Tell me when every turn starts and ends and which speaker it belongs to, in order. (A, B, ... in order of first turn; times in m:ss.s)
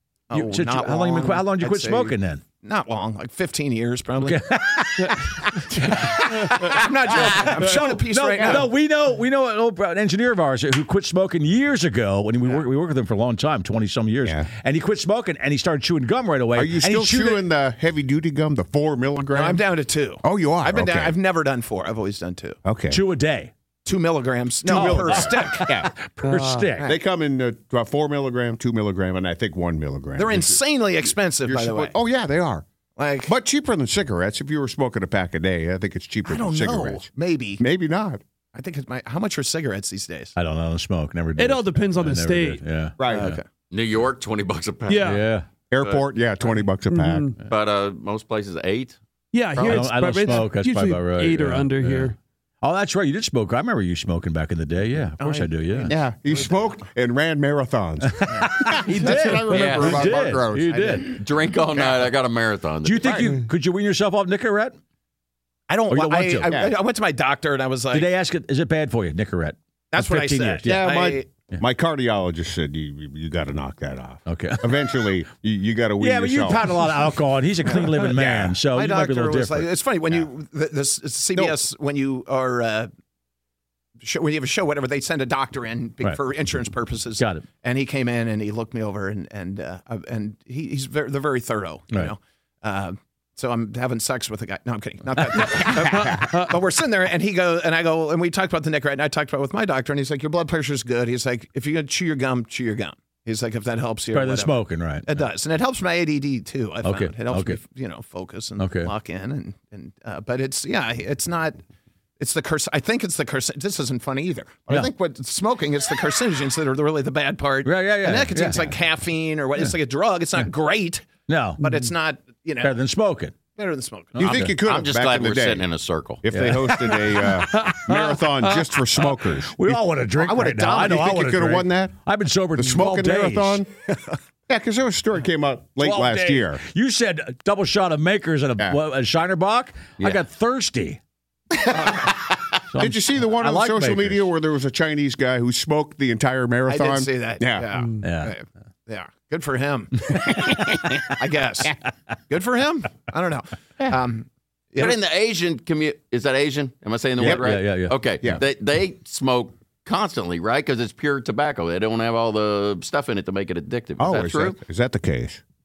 0:00.3-0:04.4 A
0:00.3-0:02.4 B
0:04.2-0:05.2 B
0:05.4-0:08.7 A
0:05.9-0:06.6 B
0:07.1-0:17.5 B
0:16.6-0:19.6 C
0:19.3-0:22.6 A
0:20.2-0:21.2 C
0:22.6-0:23.0 C
0:22.9-0:23.5 B
0:23.8-0:25.7 A
0:24.7-0:25.9 C
0:24.7-0:26.9 B
0:26.2-0:26.7 D
0:26.8-0:30.6 C
0:30.2-0:32.0 A
0:31.4-0:32.6 C
0:33.0-0:33.3 A
0:33.2-0:38.2 C
0:36.3-0:37.6 A
0:38.5-0:40.3 A
0:40.4-0:43.4 B
0:41.4-0:42.6 D
0:43.0-0:43.3 C
0:43.2-0:43.4 A
0:43.7-0:45.2 E
0:44.9-0:45.2 D
0:45.0-0:45.5 B
0:45.7-0:47.3 C
0:45.8-0:46.6 E
0:46.9-0:47.4 D
0:47.4-0:49.0 E
0:49.3-0:52.2 D
0:49.6-0:55.9 B
0:55.2-0:55.9 A
0:55.9-1:01.0 C
0:58.1-1:01.2 B
0:59.0-0:59.4 D
0:59.5-1:00.1 E
1:01.1-1:03.3 E
1:01.7-1:02.1 A
1:02.8-1:04.8 B
1:03.0-1:03.3 C
1:05.7-1:08.1 A
1:05.9-1:06.7 B
1:07.9-1:11.0 B
1:09.9-1:11.3 A
1:10.6-1:16.8 C
1:14.3-1:14.9 B
1:16.0-1:19.8 B
1:17.8-1:22.9 A
1:24.0-1:51.6 A
1:27.2-1:27.5 B
1:44.1-1:45.2 B
1:46.8-1:47.6 B
1:48.6-1:48.9 B
1:52.2-2:02.8 A
1:57.6-1:58.9 B
1:59.5-1:59.8 B
2:01.3-2:01.7 B
2:02.6-2:03.4 B
2:03.6-2:04.3 A
2:04.2-2:04.6 B
2:04.2-2:05.7 C
2:04.6-2:06.2 E
2:06.2-2:09.5 C
2:06.3-2:08.0 B
2:09.0-2:13.6 B
2:10.2-2:11.1 A
2:10.8-2:11.9 C
2:12.6-2:13.7 C
2:14.5-2:16.6 C
2:15.8-2:21.0 B
2:22.7-2:24.3 B
2:22.8-2:27.7 C
2:26.7-2:30.1 A
2:28.0-2:28.4 B
2:31.1-2:31.8 A
2:32.3-2:35.0 A
2:34.8-2:44.6 E
2:37.2-2:38.0 B
2:37.2-2:37.5 C
2:44.0-2:45.4 C